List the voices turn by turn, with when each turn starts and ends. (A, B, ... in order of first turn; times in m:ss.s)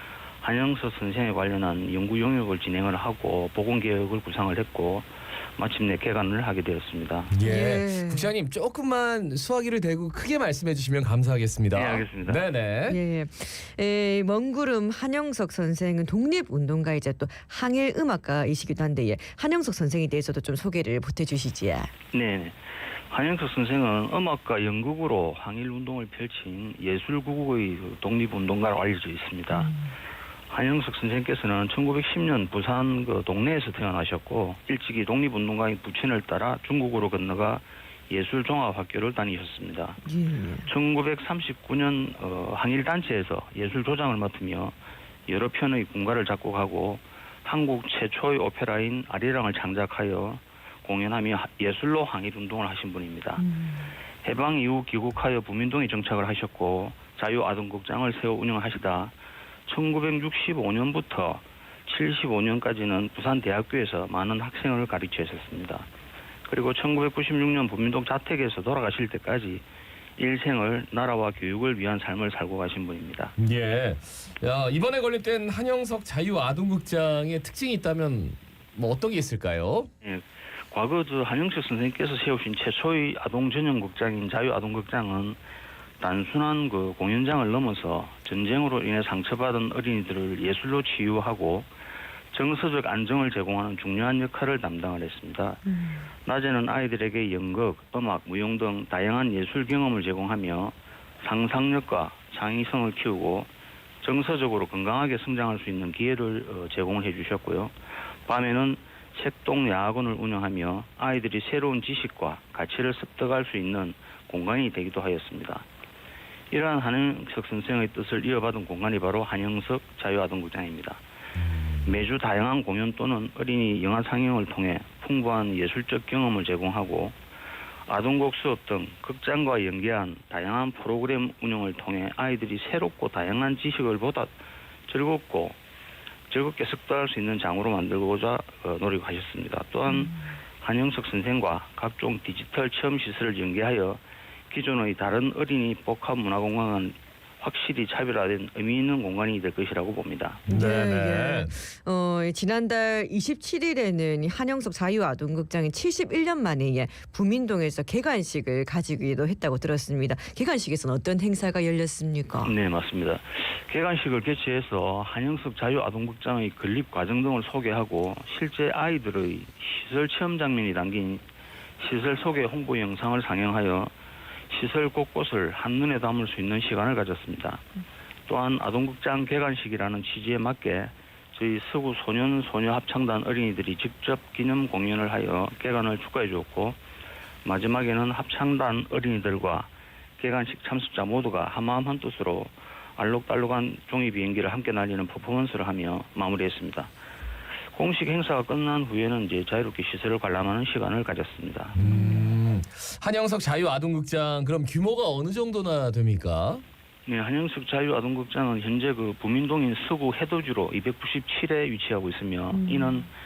0:00.4-0:07.3 A
0:07.3-0:13.0 B
0:07.4-0:08.3 C
0:11.7-0:12.4 A
0:12.9-0:21.9 C
0:22.1-0:29.7 A
0:29.5-0:29.9 C
0:30.5-0:40.0 A
0:40.0-0:40.7 C
0:40.6-0:44.7 A
0:45.3-0:53.4 A
0:53.4-0:53.9 C
0:54.2-0:59.1 A
0:59.7-1:05.9 A
1:06.5-1:09.6 A
1:10.2-1:13.3 A
1:13.4-1:19.9 B
1:20.0-1:25.4 A
1:26.0-1:31.7 A
1:32.3-1:35.6 A
1:35.6-1:36.1 C
1:36.2-1:43.5 A
1:44.0-1:47.7 A
1:48.2-1:55.6 A
1:56.5-2:01.0 A
2:01.4-2:02.0 B
2:01.8-2:07.2 A
2:07.9-2:14.3 A
2:14.9-2:15.6 A
2:16.3-2:30.4 A
2:19.9-2:20.2 C
2:30.5-2:31.5 B
2:30.5-2:42.5 C
2:42.4-2:51.2 A
2:51.8-2:53.9 A
2:54.5-2:57.6 A
2:58.3-3:06.8 A
3:07.4-3:16.9 A
3:17.7-3:21.8 A
3:21.7-3:26.6 B
3:21.8-3:22.3 C
3:27.0-3:33.1 A
3:32.5-3:33.0 C